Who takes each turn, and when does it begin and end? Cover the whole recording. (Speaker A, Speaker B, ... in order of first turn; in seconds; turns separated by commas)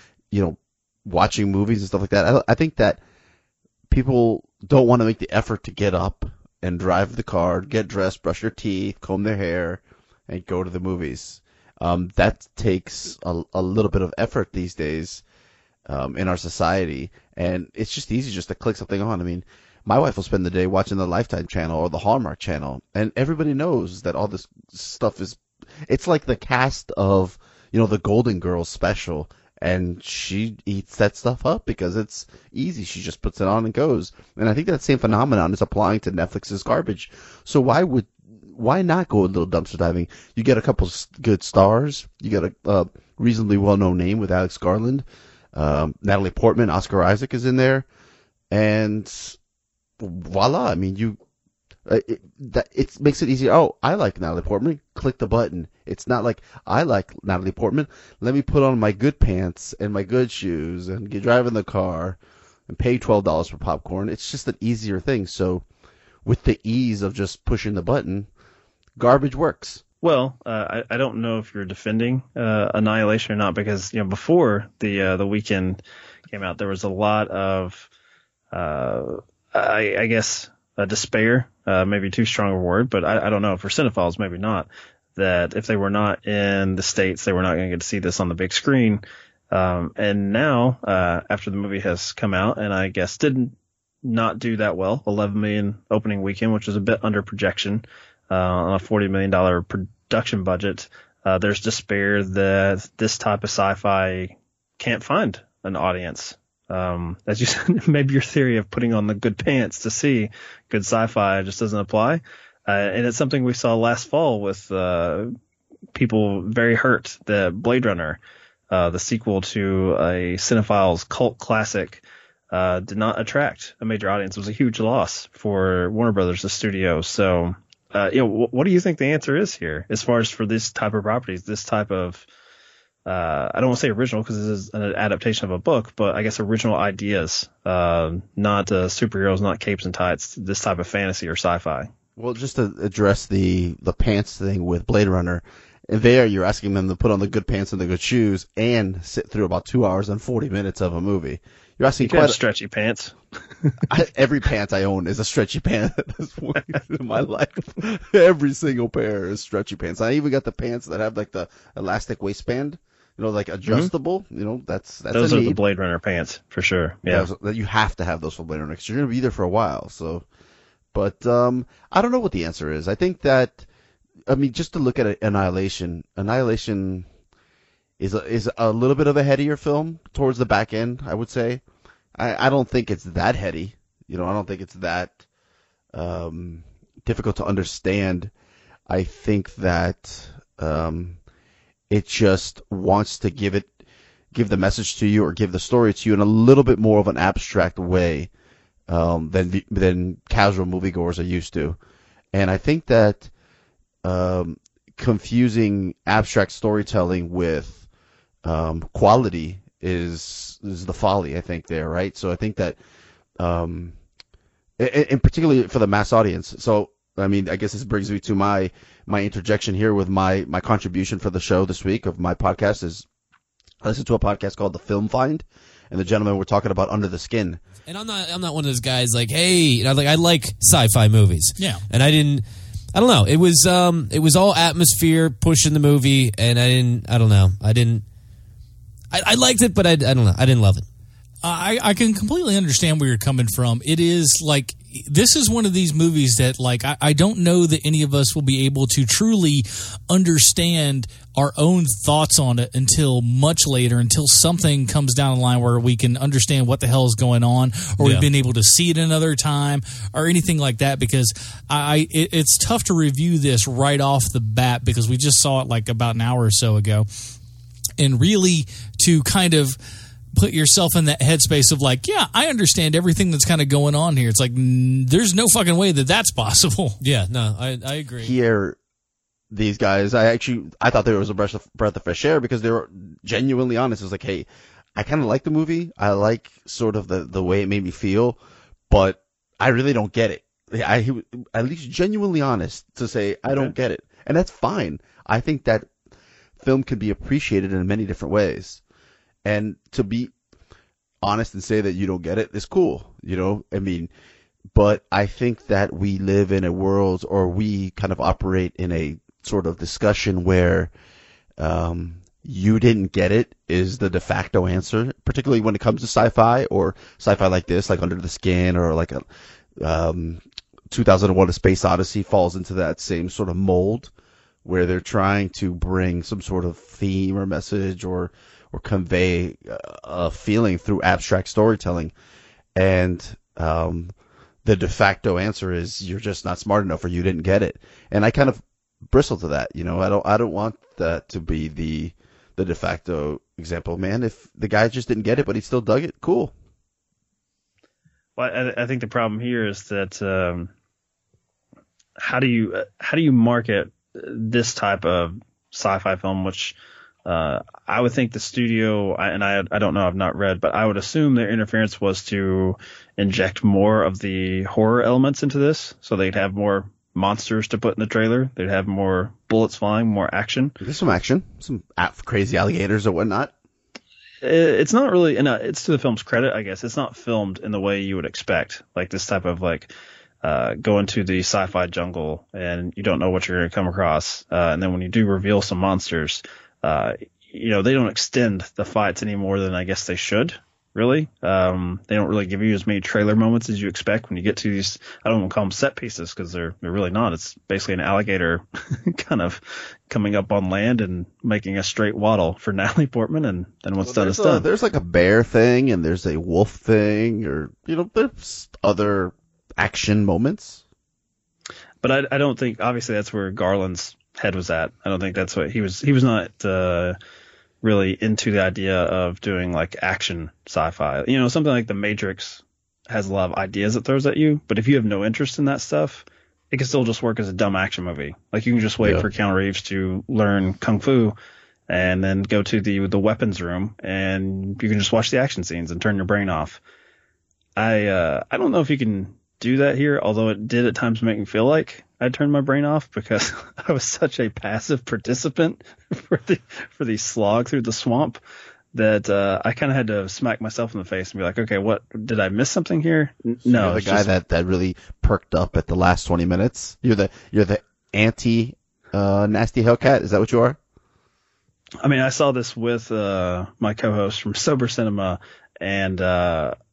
Speaker A: 0.3-3.0, Speaker A: 3.9-15.2, Speaker A: 15.9-47.9, Speaker A: 48.5-49.4, Speaker A: 50.0-51.2, Speaker A: 51.9-62.2, Speaker A: 62.7-65.6, Speaker A: 66.2-68.3, Speaker A: 69.0-69.8, Speaker B: 70.0-77.9, Speaker B: 78.5-115.3, Speaker B: 115.9-132.2, Speaker B: 133.1-141.9, Speaker A: 142.2-152.4, Speaker B: 152.0-153.8, Speaker A: 153.9-165.6, Speaker B: 163.7-163.9, Speaker B: 165.1-167.3, Speaker A: 167.1-170.2, Speaker A: 170.9-173.7, Speaker A: 174.3-177.1, Speaker A: 178.0-181.6, Speaker A: 182.2-185.2, Speaker A: 185.9-188.3, Speaker A: 188.9-191.2, Speaker A: 191.9-193.7, Speaker A: 194.3-198.3, Speaker A: 198.9-201.8, Speaker A: 202.3-203.3, Speaker A: 204.0-207.8, Speaker A: 208.4-212.8, Speaker A: 213.4-213.9, Speaker A: 214.8-223.1, Speaker A: 223.8-227.6, Speaker C: 227.8-238.1, Speaker C: 239.1-240.8, Speaker D: 241.4-267.1, Speaker C: 258.0-258.3, Speaker D: 268.0-269.8, Speaker D: 270.4-277.0, Speaker C: 277.0-278.3, Speaker A: 278.2-278.8, Speaker A: 279.5-295.9, Speaker A: 296.6-298.8, Speaker A: 299.4-300.3, Speaker A: 301.2-304.1, Speaker A: 304.7-310.9, Speaker A: 311.6-319.2, Speaker A: 319.8-324.1, Speaker A: 324.6-332.1, Speaker A: 332.8-334.1, Speaker A: 334.6-346.5, Speaker B: 348.4-350.7, Speaker B: 352.2-370.8, Speaker A: 370.8-373.5, Speaker B: 374.4-379.9, Speaker B: 380.4-404.6, Speaker A: 404.0-410.8, Speaker B: 412.0-417.2, Speaker B: 417.8-431.3, Speaker B: 431.9-436.8, Speaker B: 437.8-448.4, Speaker B: 448.9-454.3, Speaker A: 453.6-460.8, Speaker B: 462.0-466.7